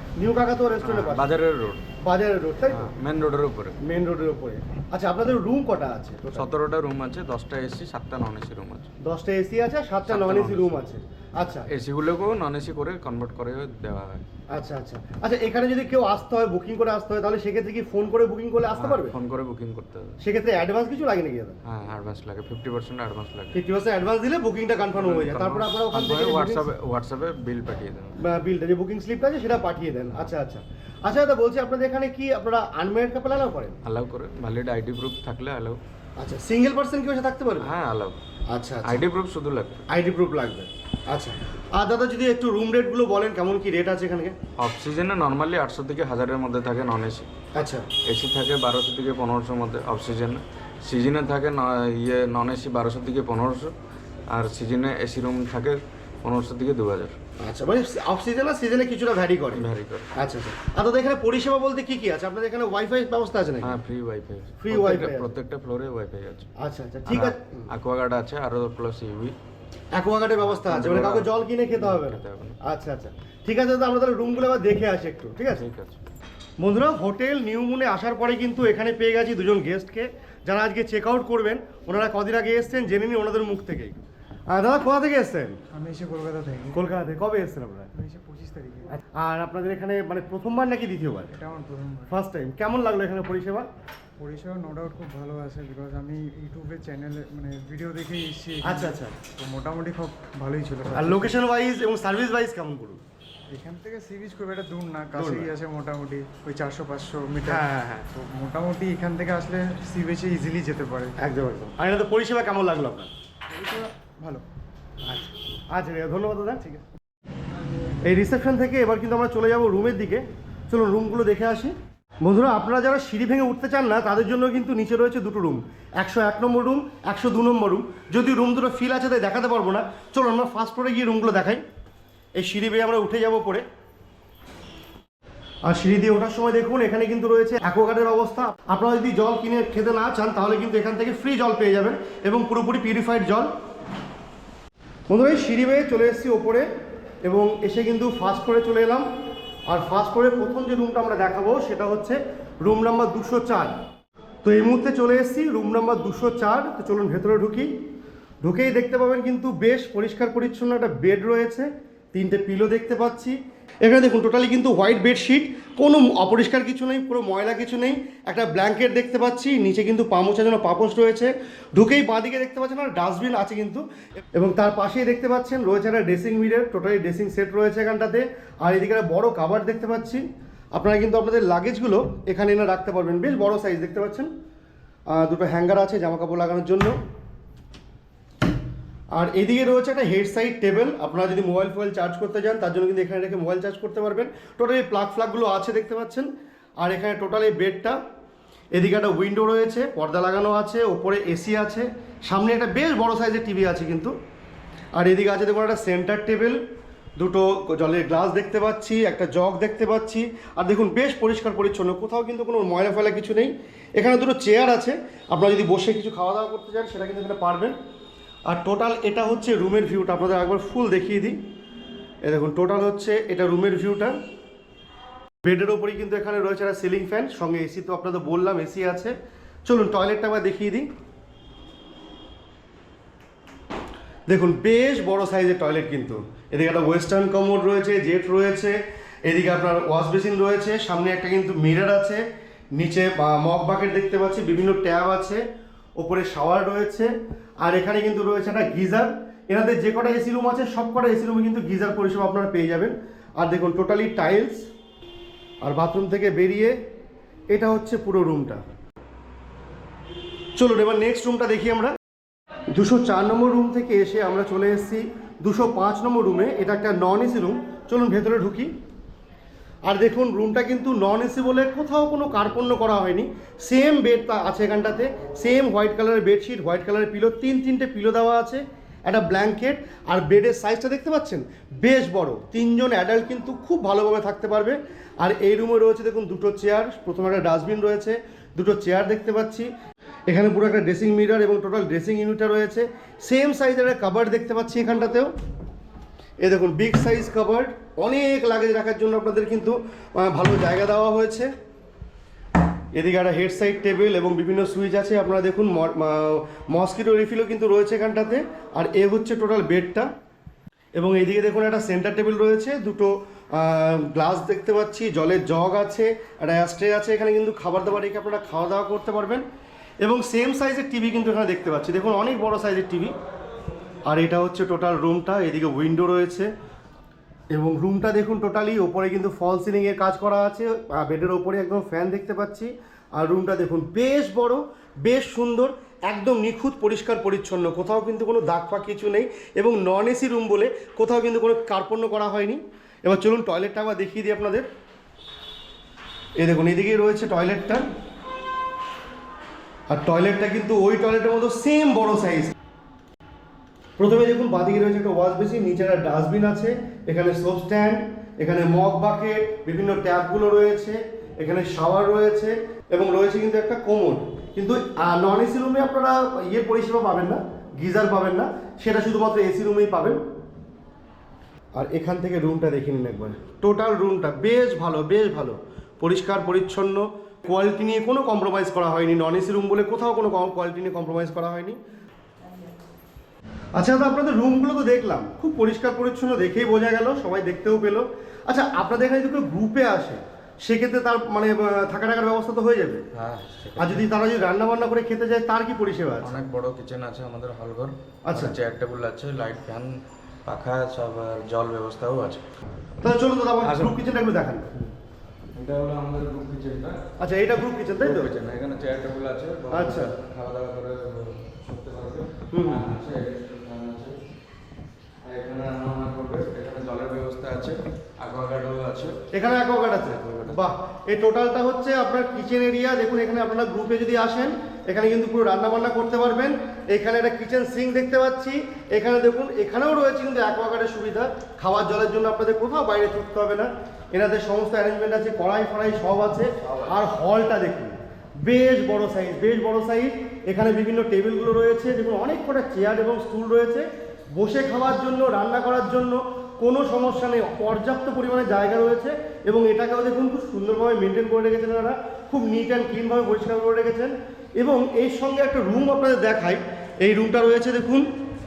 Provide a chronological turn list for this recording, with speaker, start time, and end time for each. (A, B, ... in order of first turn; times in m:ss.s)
0:00.2-0:01.3 A
0:00.8-0:01.8 B
0:02.0-0:02.9 A
0:02.7-0:03.8 B
0:03.8-0:06.5 A
0:06.3-0:08.9 B
0:09.0-0:11.7 A
0:10.0-0:10.8 B
0:11.7-0:14.2 B
0:14.5-0:19.1 A
0:18.8-0:20.2 B
0:20.2-0:21.6 A
0:21.6-0:23.6 B
0:23.5-0:26.7 A
0:24.9-0:28.2 B
0:28.2-0:33.8 A
0:33.8-0:35.8 B
0:36.2-0:37.7 A
0:37.6-0:38.2 B
0:38.5-0:39.0 A
0:38.8-0:39.9 B
0:39.9-0:44.4 A
0:44.6-0:53.7 B
0:47.5-0:47.9 A
0:54.3-0:57.2 B
0:57.4-1:03.8 A
0:59.5-1:00.1 B
1:03.6-1:06.5 B
1:04.6-1:05.3 A
1:06.6-1:07.7 A
1:07.1-1:09.3 B
1:09.9-1:15.6 A
1:10.4-1:12.6 B
1:15.5-1:16.0 B
1:16.6-1:25.6 A
1:25.7-1:26.8 C
1:26.7-1:27.9 A
1:27.9-1:28.9 C
1:28.9-1:31.4 A
1:31.4-1:32.1 C
1:32.1-1:33.7 A
1:34.2-1:41.4 C
1:38.6-1:39.2 A
1:40.9-1:43.0 A
1:43.5-1:51.1 C
1:45.1-1:45.5 A
1:47.4-1:48.1 A
1:51.2-1:53.1 A
1:53.5-1:54.4 C
1:55.0-1:56.6 A
1:58.0-2:11.6 A
2:12.4-2:13.6 A
2:15.6-2:23.5 A
2:25.1-2:26.7 A
2:27.2-2:29.0 A
2:29.7-2:33.8 A
2:34.4-2:37.7 A
2:38.4-2:53.8 A
2:54.4-3:00.2 A
3:00.8-3:04.3 A
3:05.1-3:07.0 A
3:09.2-3:18.0 A
3:18.7-3:24.1 A
3:25.0-3:26.6 A
3:27.2-3:37.8 A
3:38.5-3:41.4 A
3:42.2-3:44.2 A
3:45.4-3:49.1 A
3:49.6-3:50.9 A
3:54.3-4:02.2 A
4:02.8-4:05.4 A
4:06.0-4:07.1 A
4:07.6-4:14.6 A
4:15.6-4:16.8 A
4:17.5-4:18.6 A
4:20.6-4:21.9 A
4:22.7-4:28.7 A
4:29.9-4:49.7 A
4:50.3-4:55.3 A
4:56.4-5:01.5 A
5:02.9-5:10.1 A
5:11.0-5:19.4 A
5:20.0-5:23.1 A
5:24.0-5:26.5 A
5:27.5-5:44.7 A
5:46.4-5:47.9 A
5:49.9-5:52.6 A
5:54.0-6:10.2 A
6:11.7-6:21.8 A
6:23.8-6:33.0 A
6:33.1-6:34.1 B
6:33.8-6:36.3 A
6:36.2-6:42.4 B
6:38.3-6:38.6 A
6:43.0-6:44.7 A
6:43.6-6:44.0 B
6:45.5-6:47.0 B
6:47.2-6:48.3 A
6:48.0-6:54.2 B
6:49.7-6:50.1 A
6:52.5-6:52.8 A
6:55.2-6:59.3 B
6:59.3-7:38.1 A
6:59.9-7:00.7 B